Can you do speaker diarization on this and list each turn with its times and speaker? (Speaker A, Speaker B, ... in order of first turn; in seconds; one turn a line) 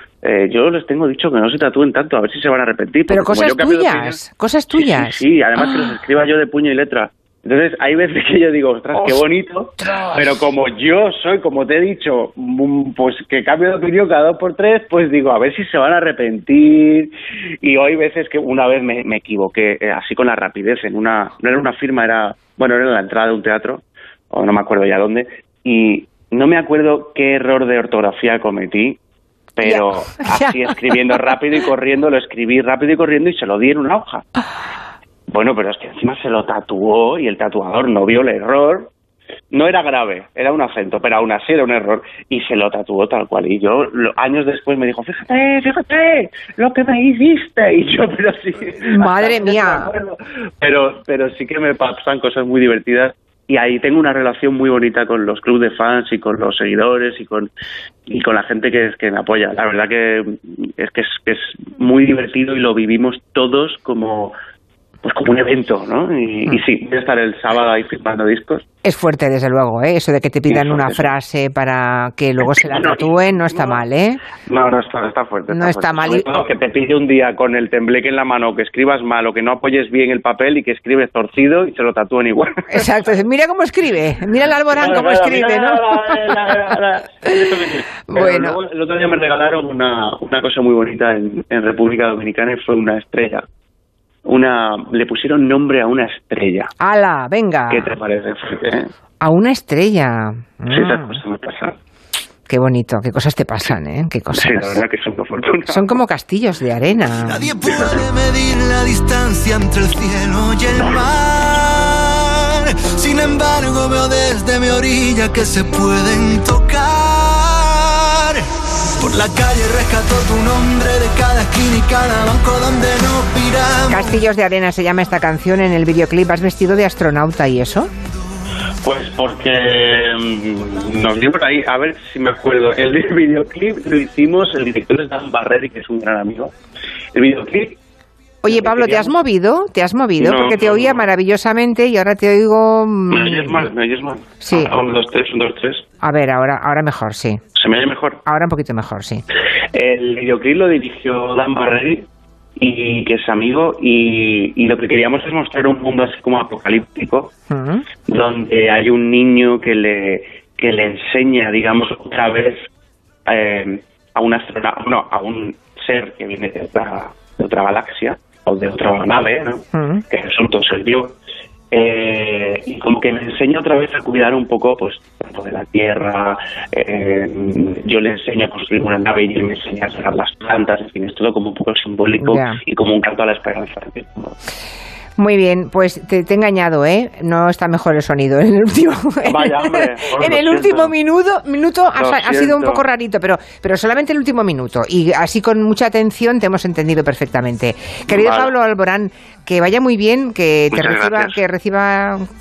Speaker A: 0.2-4.2
Speaker B: 3.1-5.9
Speaker A: 4.7-29.0
Speaker B: 8.9-9.2
Speaker B: 9.8-10.4
Speaker A: 29.6-34.3
Speaker B: 29.6-31.2
Speaker A: 35.3-38.9
Speaker A: 39.5-57.5
Speaker B: 48.9-49.9
Speaker A: 58.1-64.3
Speaker A: 65.0-68.6
Speaker B: 68.8-74.2
Speaker A: 70.5-71.1
Speaker A: 72.4-73.8
Speaker A: 74.4-82.9
Speaker B: 75.5-76.3
Speaker B: 82.7-86.4
Speaker A: 84.7-93.4
Speaker B: 88.1-88.6
Speaker A: 94.2-96.7
Speaker B: 96.8-97.9
Speaker A: 97.7-98.9
Speaker B: 99.2-101.2
Speaker A: 100.7-101.8
Speaker B: 102.5-104.8
Speaker A: 104.3-106.0
Speaker B: 105.7-107.5
Speaker C: 107.2-124.2
Speaker A: 107.7-108.0
Speaker B: 123.9-127.9
Speaker A: 128.8-136.5
Speaker A: 137.1-137.8
Speaker B: 138.4-143.7
Speaker A: 138.5-139.1
Speaker A: 140.2-141.1
Speaker A: 143.1-145.8
Speaker B: 144.4-144.7
Speaker B: 146.0-147.4
Speaker A: 147.6-148.2
Speaker B: 148.3-149.2
Speaker A: 149.7-152.1
Speaker A: 152.6-157.3
Speaker B: 157.5-157.9
Speaker A: 158.1-162.7
Speaker A: 163.3-171.2
Speaker B: 169.7-170.0
Speaker A: 171.7-184.4
Speaker B: 182.2-182.6
Speaker B: 185.2-202.2
Speaker A: 189.2-190.9
Speaker A: 191.9-192.8
Speaker A: 198.1-198.5
Speaker A: 200.7-201.4